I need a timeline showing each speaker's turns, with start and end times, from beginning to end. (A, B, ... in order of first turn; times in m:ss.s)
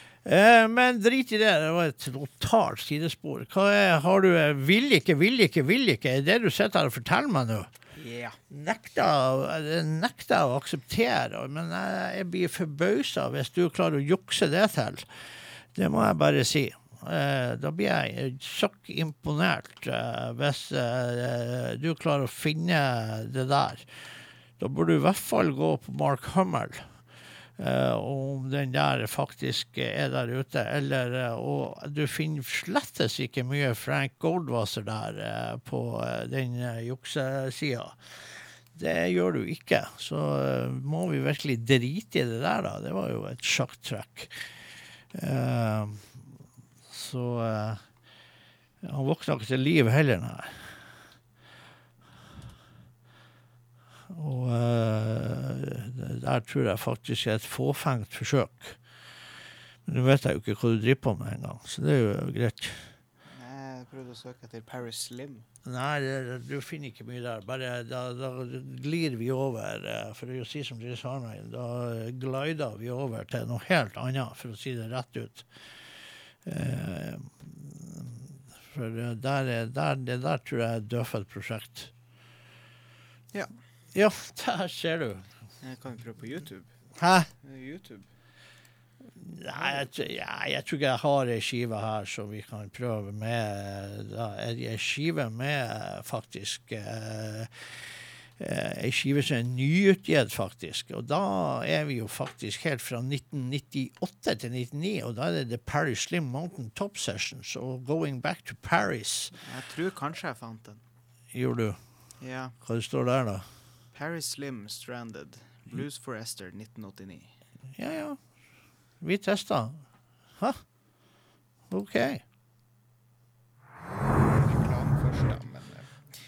0:00.2-0:07.7 A
0:08.0-0:08.4 B
0:08.5-0:15.0 A
0:15.7-0:23.8 A
0:24.6-0:26.8 A
0:27.6-0:37.9 A
0:38.7-0:44.3 A
0:45.1-0:46.2 A
0:46.9-0:47.8 A
0:48.8-0:50.5 A
0:54.1-0:58.8 A
0:59.9-1:02.9 A
1:03.3-1:05.4 B
1:05.6-1:15.4 A
1:16.4-1:21.9 A
1:23.9-1:25.2 A
1:25.6-1:26.7 B
1:27.0-1:27.3 A
1:27.4-1:28.1 B
1:29.2-1:37.5 A
1:38.4-1:49.3 A
1:49.4-1:50.8 B
1:51.3-1:51.8 A
1:52.2-1:52.5 B
1:52.6-1:53.4 A
1:53.9-1:57.3 B
1:57.8-1:58.2 A
1:59.0-1:59.8 A
2:01.7-2:02.2 A
2:04.8-2:05.4 B